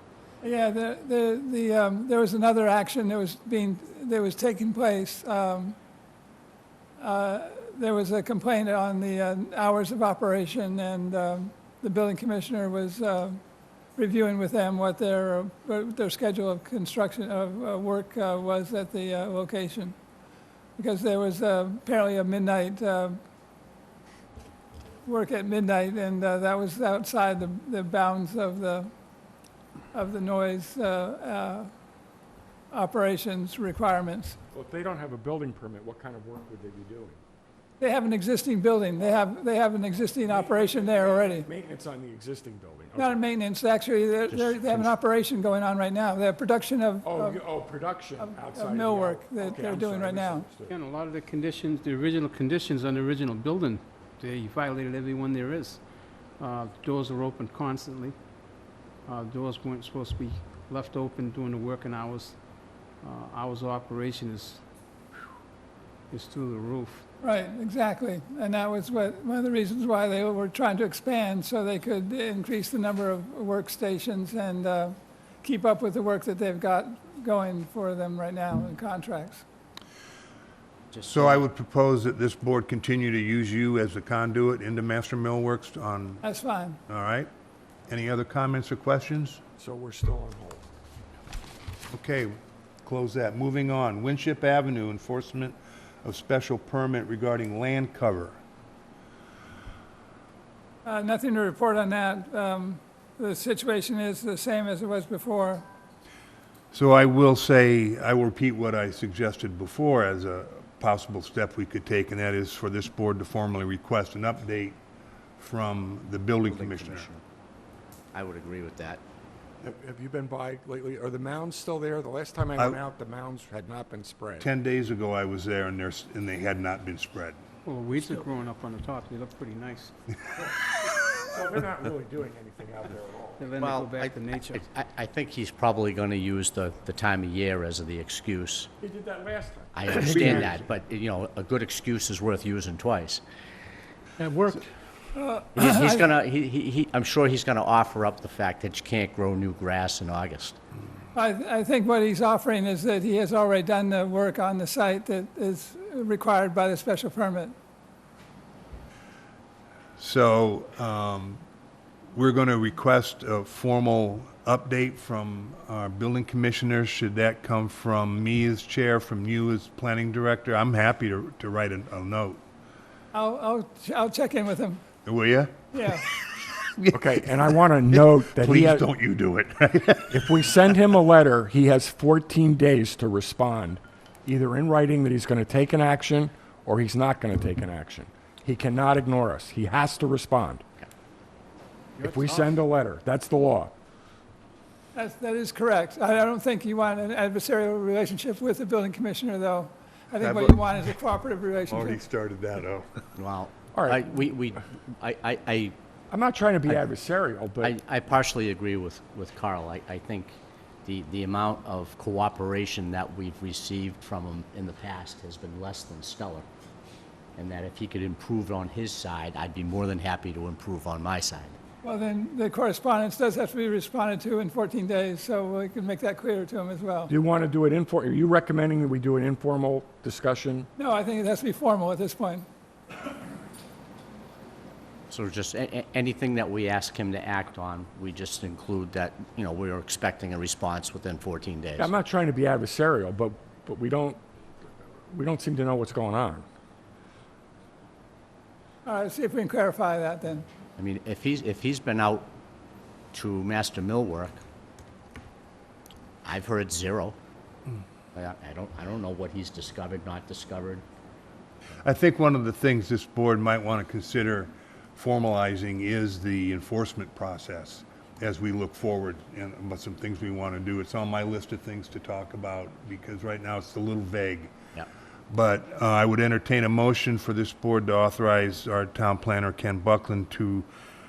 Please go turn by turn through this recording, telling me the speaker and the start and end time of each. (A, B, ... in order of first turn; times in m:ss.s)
0:00.4-0:05.8 A
0:07.0-0:13.4 A
0:14.0-0:20.0 A
0:20.8-0:23.2 A
0:25.1-0:28.9 A
0:29.9-0:31.7 A
0:32.7-0:34.4 A
0:34.5-0:37.2 B
0:37.8-0:41.5 A
0:40.2-0:43.2 B
0:43.0-0:47.4 A
0:44.3-0:44.9 C
0:47.0-0:50.8 B
0:48.2-0:50.5 A
0:50.7-0:58.2 D
0:59.1-1:02.4 D
1:03.0-1:04.6 D
1:06.1-1:07.0 D
1:07.2-1:19.4 A
1:20.9-1:21.4 C
1:21.0-1:26.2 E
1:26.2-1:26.8 A
1:26.9-1:27.3 E
1:27.9-1:29.4 E
1:29.6-1:30.6 B
1:31.9-1:38.4 E
1:40.8-1:45.6 A
1:46.7-1:54.8 E
1:55.4-1:57.1 E
1:56.5-1:57.2 C
1:58.1-1:59.0 C
1:59.6-2:04.5 B
2:04.4-2:07.4 E
2:07.6-2:10.0 D
2:10.4-2:13.6 B
2:13.4-2:14.6 D
2:13.6-2:18.7 C
2:18.8-2:20.6 B
2:19.8-2:23.2 C
2:24.2-2:24.6 D
2:25.2-2:26.1 A
2:25.6-2:30.6 C
2:31.2-2:37.6 A
2:40.0-2:41.4 E
2:42.1-2:52.4 E
2:53.1-2:54.8 A
2:55.0-2:57.2 E
2:55.7-2:56.0 A
2:56.9-2:58.9 B
2:58.4-3:00.4 E
3:00.1-3:10.6 B
3:12.0-3:13.7 B
3:12.0-3:12.5 D
3:15.0-3:22.0 A
3:20.2-3:20.9 E
3:21.7-3:23.0 E
3:23.2-3:25.8 C
3:23.8-3:24.1 B
3:26.1-3:27.8 B
3:27.6-3:36.4 C
3:37.4-3:41.6 C
3:41.8-3:47.1 A
3:47.1-3:50.7 B
3:50.8-3:52.5 A
3:55.1-4:01.9 C
4:01.8-4:06.5 B
4:08.8-4:10.5 A
4:10.8-4:12.3 C
4:13.1-4:14.4 C
4:16.2-4:17.2 C
4:18.2-4:20.8 C
4:21.8-4:34.5 E
4:35.3-4:40.7 E